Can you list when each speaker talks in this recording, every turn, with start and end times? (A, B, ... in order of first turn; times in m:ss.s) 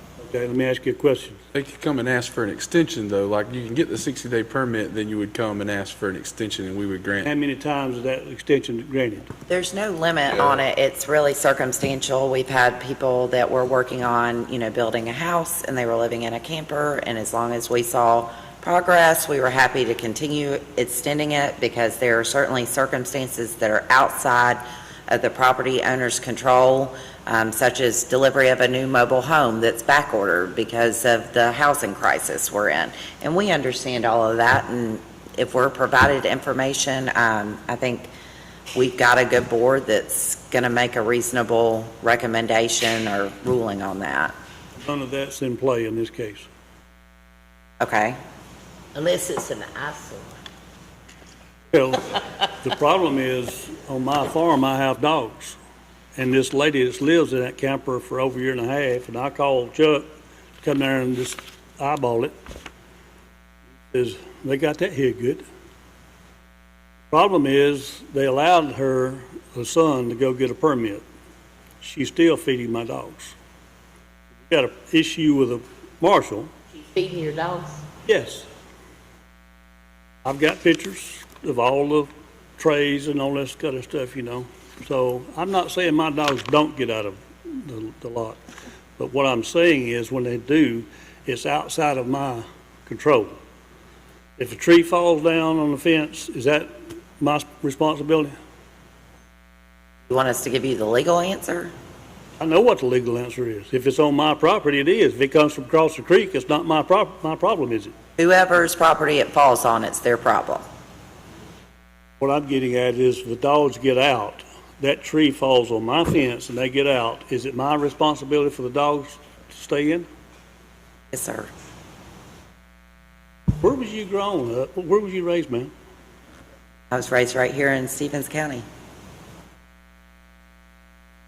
0:00.2-0:01.4 A
0:01.5-0:07.3 B
0:07.2-0:09.3 A
0:09.5-0:38.1 C
0:10.3-0:10.6 B
0:38.7-0:44.3 C
0:44.8-0:46.5 A
0:47.8-0:48.2 C
0:48.9-0:50.3 D
0:51.7-0:55.6 A
0:56.2-1:00.1 A
1:00.6-1:02.3 A
1:03.8-1:05.4 A
1:07.1-1:11.0 A
1:11.8-1:13.3 A
1:14.4-1:16.5 A
1:16.9-1:17.8 D
1:18.1-1:18.5 A
1:20.2-1:28.4 A
1:29.0-1:33.4 A
1:34.4-1:38.3 A
1:40.1-1:41.7 C
1:42.4-1:47.9 A
1:48.2-1:50.6 C
1:52.2-2:00.1 A
2:01.1-2:01.5 C
2:03.6-2:05.7 A
2:06.9-2:08.6 C